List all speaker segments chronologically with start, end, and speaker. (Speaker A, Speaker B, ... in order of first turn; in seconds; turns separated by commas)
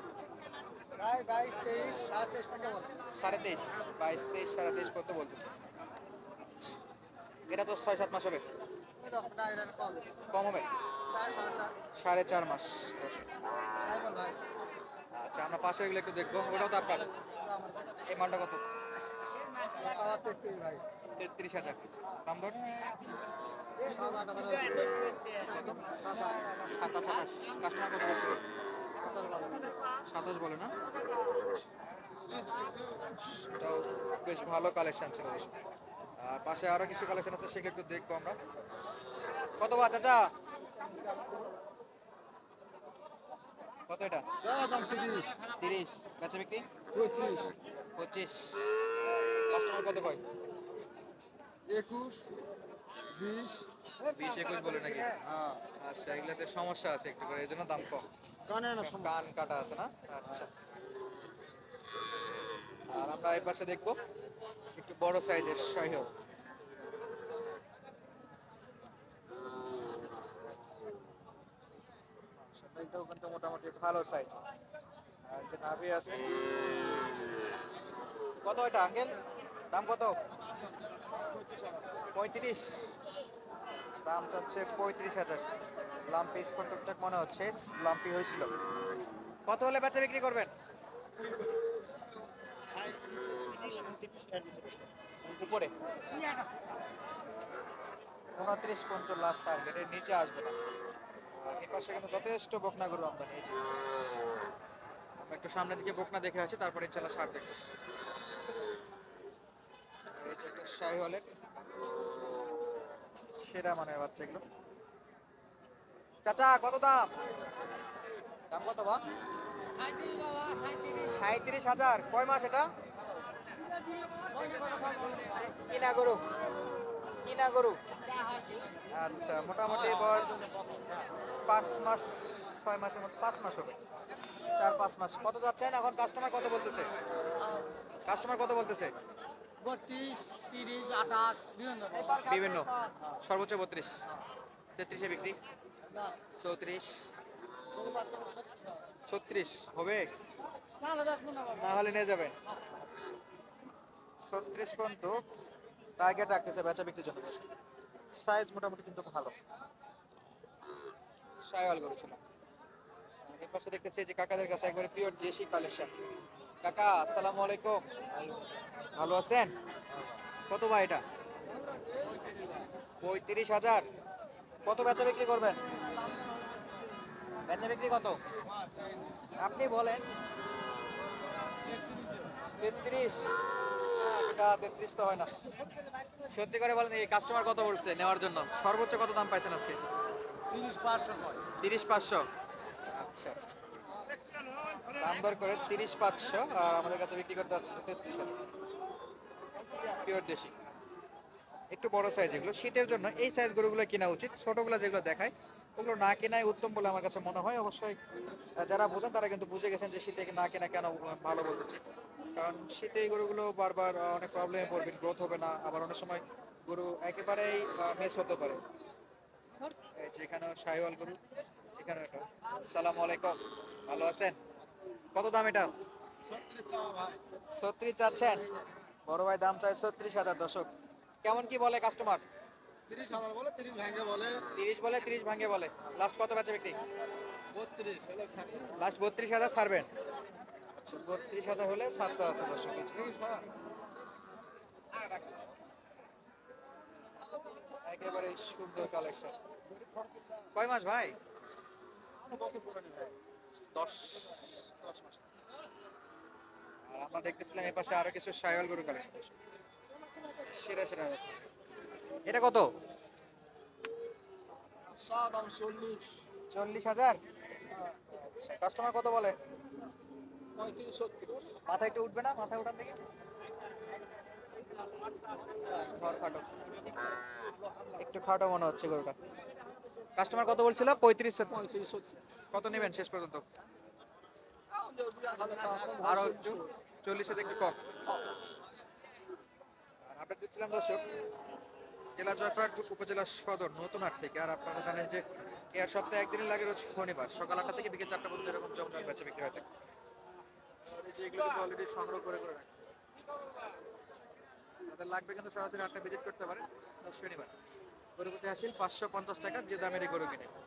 Speaker A: 1.0-2.9, Speaker B: 3.1-5.6, Speaker B: 7.5-8.4, Speaker A: 9.0-10.2, Speaker B: 10.3-10.7, Speaker A: 11.1-11.8, Speaker B: 12.0-13.3, Speaker A: 13.8-14.4, Speaker B: 15.2-17.1, Speaker A: 17.3-18.1, Speaker B: 18.0-18.6, Speaker A: 19.6-20.8, Speaker B: 21.1-22.6, Speaker A: 23.8-25.0, Speaker B: 25.3-26.0, Speaker A: 25.9-26.3, Speaker B: 26.6-28.4, Speaker A: 29.0-29.6, Speaker B: 30.1-30.7, Speaker B: 33.0-35.5, Speaker B: 36.2-38.4, Speaker B: 39.6-40.3, Speaker B: 43.9-44.2, Speaker A: 44.4-45.3, Speaker B: 45.6-46.7, Speaker A: 46.9-47.5, Speaker B: 48.0-48.6, Speaker B: 49.2-50.2, Speaker A: 51.7-52.3, Speaker A: 53.1-55.6, Speaker B: 54.1-55.1, Speaker B: 55.8-58.0, Speaker A: 58.5-59.1, Speaker B: 58.8-60.5, Speaker B: 62.9-64.0, Speaker B: 64.7-66.1, Speaker B: 72.4-74.4, Speaker B: 75.2-76.2, Speaker B: 78.4-79.1, Speaker B: 79.7-80.2, Speaker B: 82.1-83.0, Speaker B: 84.0-85.5, Speaker B: 86.0-88.5, Speaker B: 89.5-90.5, Speaker B: 93.5-95.7, Speaker C: 93.8-94.4, Speaker B: 98.3-100.6, Speaker B: 101.4-103.6, Speaker B: 105.2-107.6, Speaker B: 110.1-111.2, Speaker B: 113.3-114.4, Speaker B: 116.2-117.1, Speaker B: 118.5-119.0, Speaker C: 120.0-120.8, Speaker B: 120.8-122.7, Speaker C: 124.3-125.3, Speaker B: 125.6-126.2, Speaker B: 127.2-127.8, Speaker B: 128.9-130.5, Speaker B: 131.5-133.8, Speaker B: 134.5-136.9, Speaker B: 138.0-138.9, Speaker C: 139.6-142.0, Speaker B: 141.9-144.0, Speaker B: 144.8-145.4, Speaker B: 146.4-146.9, Speaker C: 147.8-148.4, Speaker B: 149.1-150.1, Speaker C: 150.8-151.4, Speaker B: 151.4-152.3, Speaker B: 154.2-155.2, Speaker B: 156.0-157.5, Speaker B: 158.1-159.3, Speaker B: 161.4-162.2, Speaker B: 163.3-165.9, Speaker B: 166.6-167.8, Speaker B: 168.9-169.5, Speaker B: 170.5-171.0, Speaker B: 173.0-173.8, Speaker B: 174.7-175.6, Speaker B: 177.4-178.2, Speaker B: 179.3-180.1, Speaker B: 182.6-183.4, Speaker B: 183.9-185.5, Speaker B: 186.3-189.8, Speaker C: 190.5-191.4, Speaker B: 191.5-192.3, Speaker B: 192.9-193.4, Speaker B: 195.0-198.3, Speaker B: 199.9-200.5, Speaker B: 201.7-208.0, Speaker B: 208.6-211.8, Speaker B: 212.3-218.6, Speaker B: 219.9-221.2, Speaker B: 221.8-224.4, Speaker B: 225.1-225.7, Speaker A: 226.3-227.2, Speaker B: 227.5-228.5, Speaker B: 229.1-230.7, Speaker B: 231.2-232.2, Speaker A: 232.9-234.5, Speaker B: 234.5-236.8, Speaker A: 237.7-237.9, Speaker C: 237.9-238.7, Speaker B: 238.8-239.9, Speaker B: 240.8-243.1, Speaker A: 243.0-243.4, Speaker B: 247.8-249.3, Speaker B: 250.5-251.2, Speaker A: 252.3-253.1, Speaker B: 253.7-254.5, Speaker A: 254.8-255.1, Speaker B: 256.9-259.3, Speaker B: 260.5-261.4, Speaker B: 262.2-262.7, Speaker A: 264.9-265.5, Speaker C: 265.1-266.2, Speaker B: 266.5-267.2, Speaker B: 268.1-269.4, Speaker C: 270.6-271.5, Speaker B: 271.6-273.0, Speaker B: 275.7-276.5, Speaker B: 278.0-279.1, Speaker B: 280.2-281.7, Speaker B: 282.5-283.4, Speaker C: 284.8-286.2, Speaker A: 285.3-286.3, Speaker B: 286.0-287.8, Speaker B: 290.0-291.1, Speaker B: 292.1-299.6, Speaker B: 300.8-302.8, Speaker B: 304.9-307.5, Speaker B: 308.2-310.5